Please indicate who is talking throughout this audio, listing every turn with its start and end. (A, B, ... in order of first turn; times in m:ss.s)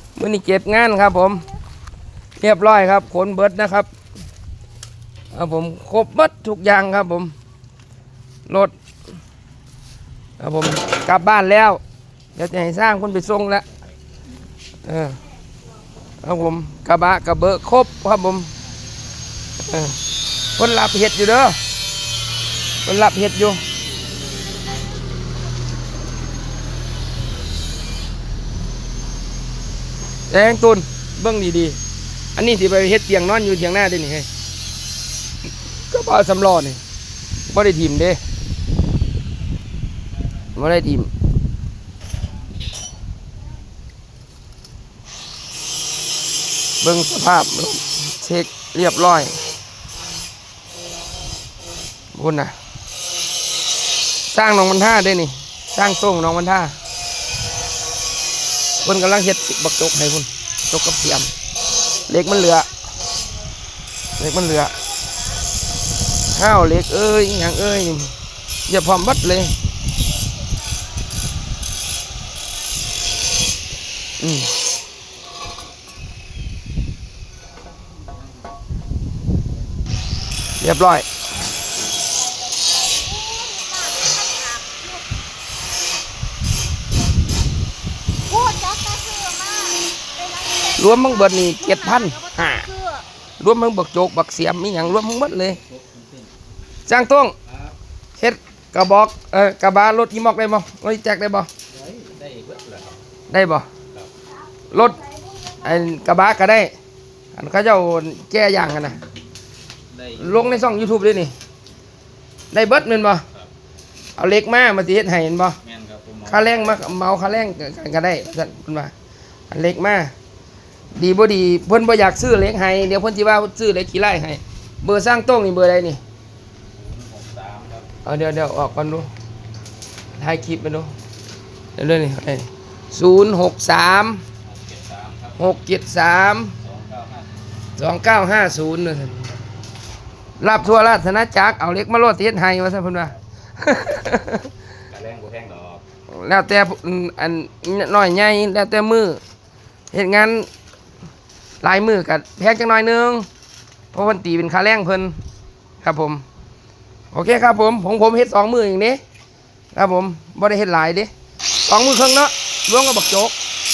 0:00.2-0:01.4 A
0:02.4-0:03.9 A
0:05.3-0:07.3 A
0:08.5-0:08.7 A
0:10.4-0:11.8 A
0:12.3-0:13.6 A
0:14.8-0:15.2 A
0:16.2-0:18.5 A
0:19.6-0:20.0 A
0:20.6-0:21.6 A
0:22.8-0:23.6 A
0:30.3-0:31.8 A
0:32.3-0:34.3 A
0:35.9-0:36.8 A
0:37.5-0:38.2 A
0:40.5-0:41.1 A
0:46.8-0:49.4 A
0:52.1-0:52.5 A
0:54.3-0:56.8 A
0:58.8-1:01.3 A
1:02.1-1:02.7 A
1:04.2-1:04.8 A
1:06.3-1:08.1 A
1:08.7-1:09.5 A
1:14.2-1:14.5 A
1:20.6-1:21.0 A
1:22.7-1:25.0 B
1:28.3-1:30.8 B
1:30.7-1:32.7 A
1:31.5-1:33.0 B
1:33.4-1:35.6 A
1:35.6-1:36.3 C
1:36.9-1:37.3 A
1:37.5-1:37.7 C
1:38.2-1:41.5 A
1:41.7-1:43.0 C
1:43.3-1:43.7 A
1:44.7-1:45.0 A
1:45.6-1:46.7 A
1:47.3-1:49.0 A
1:49.9-1:50.5 C
1:50.2-1:51.3 A
1:52.5-1:53.2 A
1:54.2-1:55.6 A
1:55.6-1:56.9 C
1:56.3-1:58.9 A
1:59.5-2:00.1 A
2:00.9-2:06.0 A
2:06.7-2:07.9 C
2:08.0-2:09.1 A
2:10.2-2:10.9 A
2:11.8-2:14.2 A
2:14.4-2:15.4 C
2:15.4-2:16.6 A
2:16.6-2:17.3 C
2:17.8-2:19.3 A
2:20.4-2:24.5 A
2:24.9-2:25.8 C
2:26.1-2:29.2 A
2:29.9-2:30.5 A
2:31.6-2:33.3 A
2:33.9-2:35.2 A
2:35.8-2:36.2 A
2:37.1-2:39.0 A
2:39.7-2:41.1 A
2:41.6-2:43.3 A